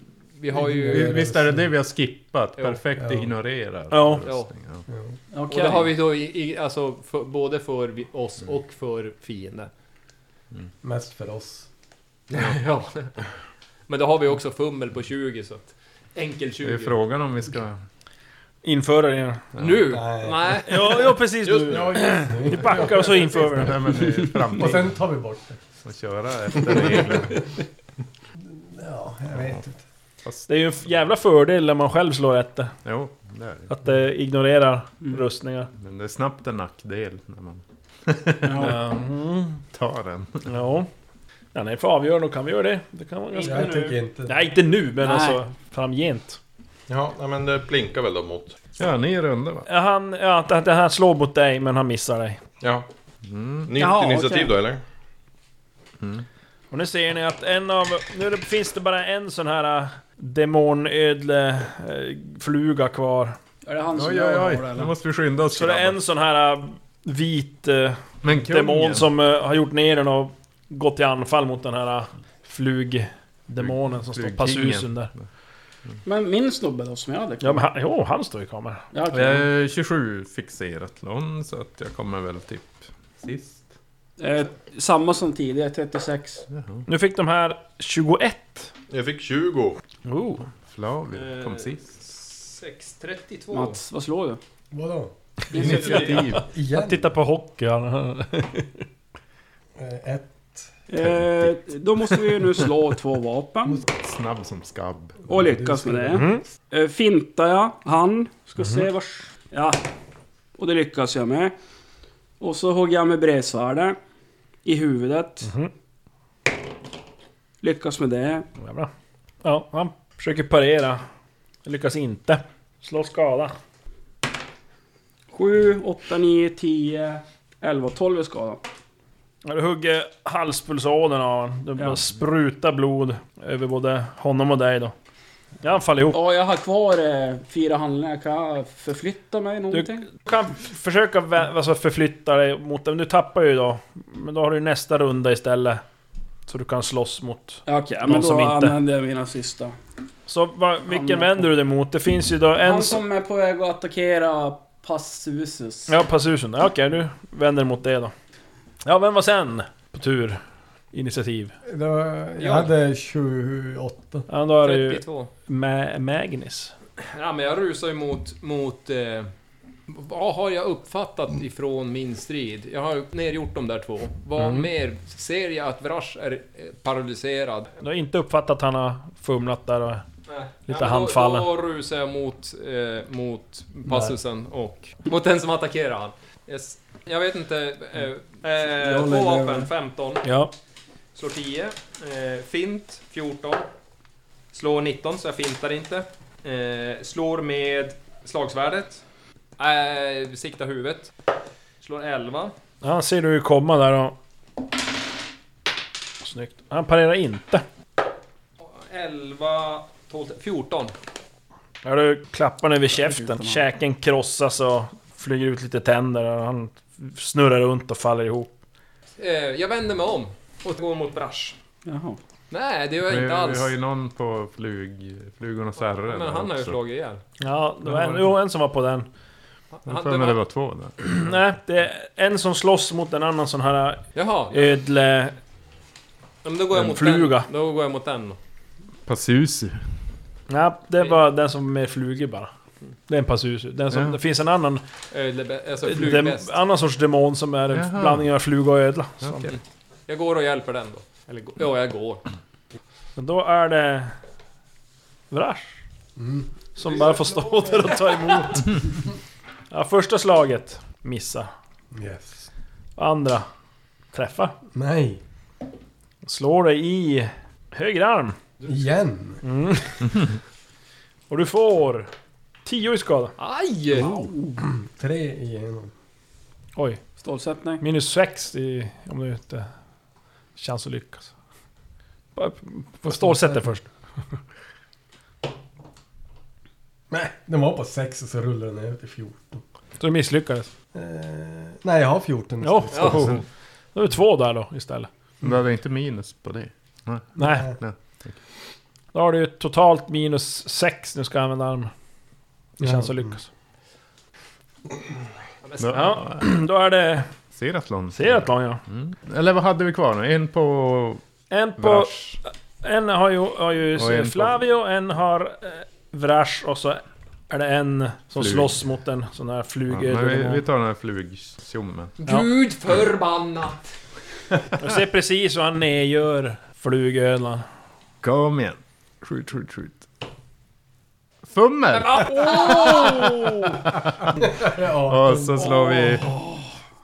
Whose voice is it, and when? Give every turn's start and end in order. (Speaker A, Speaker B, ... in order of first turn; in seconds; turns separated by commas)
Speaker A: 0.4-1.2, Speaker B: 0.5-1.7, Speaker C: 0.9-4.8, Speaker B: 3.0-3.3, Speaker D: 3.9-4.2, Speaker E: 5.3-5.9, Speaker A: 5.5-9.7, Speaker B: 10.8-11.7, Speaker A: 12.3-13.1, Speaker A: 13.9-17.0, Speaker C: 16.6-17.8, Speaker D: 18.6-19.4, Speaker C: 19.6-20.0, Speaker A: 19.6-21.1, Speaker B: 19.9-20.5, Speaker D: 20.7-23.8, Speaker F: 21.4-22.4, Speaker B: 21.7-23.7, Speaker C: 23.4-24.9, Speaker B: 24.5-25.6, Speaker C: 25.8-27.4, Speaker B: 28.6-29.8, Speaker D: 30.5-32.7, Speaker C: 32.9-33.8, Speaker D: 33.7-35.7, Speaker C: 35.8-38.8, Speaker E: 38.4-38.8, Speaker D: 38.6-39.6, Speaker C: 39.7-40.5, Speaker D: 40.5-40.9, Speaker D: 41.5-46.4, Speaker B: 43.4-44.5, Speaker E: 45.0-45.4, Speaker F: 46.9-48.6, Speaker C: 48.8-49.7, Speaker D: 49.7-52.4, Speaker F: 52.6-52.9, Speaker C: 53.3-53.7, Speaker F: 53.6-54.8, Speaker E: 53.8-54.5, Speaker C: 56.0-56.2, Speaker D: 56.7-63.4, Speaker E: 63.7-64.9, Speaker C: 63.9-66.0, Speaker D: 65.5-75.1, Speaker C: 68.2-69.1, Speaker C: 73.6-75.2, Speaker E: 76.0-77.6, Speaker D: 77.4-78.8, Speaker E: 78.9-79.5, Speaker C: 79.1-83.6, Speaker E: 84.2-86.5, Speaker C: 86.5-86.9, Speaker D: 86.9-88.7, Speaker F: 88.9-89.8, Speaker D: 90.0-90.5, Speaker C: 90.7-91.9, Speaker A: 91.1-93.8, Speaker E: 93.5-94.4, Speaker B: 94.7-95.1, Speaker C: 95.5-96.5, Speaker E: 95.5-96.2, Speaker A: 95.6-96.3, Speaker B: 96.5-97.0, Speaker D: 96.6-98.8, Speaker B: 99.8-100.7, Speaker E: 100.9-103.8, Speaker C: 101.0-101.6, Speaker C: 103.9-105.2, Speaker B: 105.3-106.4, Speaker E: 105.3-109.8, Speaker D: 106.1-106.4, Speaker D: 108.6-108.9, Speaker E: 110.6-111.5, Speaker E: 112.4-114.0, Speaker E: 114.7-115.5, Speaker D: 115.4-115.7, Speaker E: 117.6-118.5, Speaker D: 118.6-118.9, Speaker D: 119.4-121.0, Speaker D: 121.7-123.5, Speaker E: 125.3-128.6, Speaker D: 129.4-134.9, Speaker D: 135.6-136.2, Speaker E: 136.1-140.1, Speaker D: 139.7-145.8, Speaker D: 146.5-148.8, Speaker E: 147.7-149.8, Speaker D: 150.3-153.0, Speaker E: 150.9-151.5, Speaker E: 152.6-155.9, Speaker D: 155.9-158.1, Speaker D: 158.8-160.4, Speaker D: 160.9-161.6, Speaker B: 161.6-164.3, Speaker A: 162.4-162.7, Speaker D: 164.3-166.7, Speaker A: 164.6-165.3, Speaker A: 167.0-169.3, Speaker A: 169.9-177.7, Speaker D: 174.4-174.7, Speaker D: 177.8-180.1, Speaker A: 180.3-190.2, Speaker D: 180.7-181.5, Speaker B: 183.9-184.1, Speaker E: 188.7-189.7, Speaker D: 190.2-190.5, Speaker A: 191.2-193.7, Speaker A: 194.5-199.0, Speaker A: 199.6-201.1, Speaker A: 201.8-202.6, Speaker D: 202.8-204.2, Speaker D: 206.2-207.6, Speaker A: 208.6-210.9, Speaker D: 211.8-218.5, Speaker E: 212.9-213.6, Speaker A: 219.2-221.6, Speaker E: 221.9-222.2, Speaker A: 222.5-223.7, Speaker C: 223.0-226.8, Speaker A: 225.9-227.2, Speaker D: 227.4-229.1, Speaker C: 227.8-228.3, Speaker A: 229.8-230.4, Speaker C: 229.9-231.4, Speaker D: 231.0-235.4, Speaker A: 234.2-234.8, Speaker A: 236.4-238.4, Speaker D: 236.7-237.5, Speaker C: 239.1-240.0, Speaker D: 240.5-242.5, Speaker D: 243.1-244.8, Speaker C: 243.9-244.2, Speaker A: 245.1-246.5, Speaker D: 245.8-249.5, Speaker C: 247.7-248.3, Speaker C: 249.2-249.6, Speaker A: 249.5-252.2, Speaker D: 253.2-254.1, Speaker D: 255.3-255.8, Speaker B: 256.2-256.5, Speaker D: 256.8-258.8, Speaker B: 257.1-257.7, Speaker D: 259.7-261.5, Speaker B: 261.9-262.5, Speaker D: 263.0-263.5, Speaker D: 264.1-264.6, Speaker B: 264.7-265.2, Speaker D: 266.2-268.4, Speaker A: 268.6-268.9, Speaker B: 268.7-269.4, Speaker D: 269.4-270.1, Speaker D: 271.3-272.1, Speaker D: 272.6-273.3, Speaker A: 273.4-274.1, Speaker D: 274.0-274.3, Speaker B: 274.6-275.9, Speaker D: 276.8-277.0, Speaker E: 277.2-277.8, Speaker D: 277.8-279.7, Speaker D: 280.6-281.3, Speaker D: 282.4-283.9, Speaker B: 283.1-283.7, Speaker B: 287.1-289.6, Speaker D: 290.0-290.7, Speaker B: 290.9-293.4, Speaker D: 292.6-293.4, Speaker A: 292.9-293.2, Speaker D: 293.9-295.1, Speaker C: 295.4-298.4, Speaker D: 297.4-297.7, Speaker D: 299.1-301.9, Speaker B: 302.8-303.3, Speaker D: 302.8-303.5, Speaker A: 305.6-306.2, Speaker C: 305.8-306.4, Speaker D: 305.9-307.3, Speaker C: 307.5-311.2, Speaker D: 308.1-308.8, Speaker D: 311.5-320.6, Speaker C: 311.8-312.4, Speaker C: 313.9-314.6, Speaker C: 318.4-318.8, Speaker C: 319.9-322.1, Speaker A: 322.2-323.9, Speaker D: 324.8-327.6, Speaker C: 328.2-330.1, Speaker C: 331.4-333.5, Speaker A: 331.9-333.3, Speaker D: 332.3-333.8, Speaker C: 334.1-334.4, Speaker B: 334.4-335.8, Speaker C: 335.1-336.3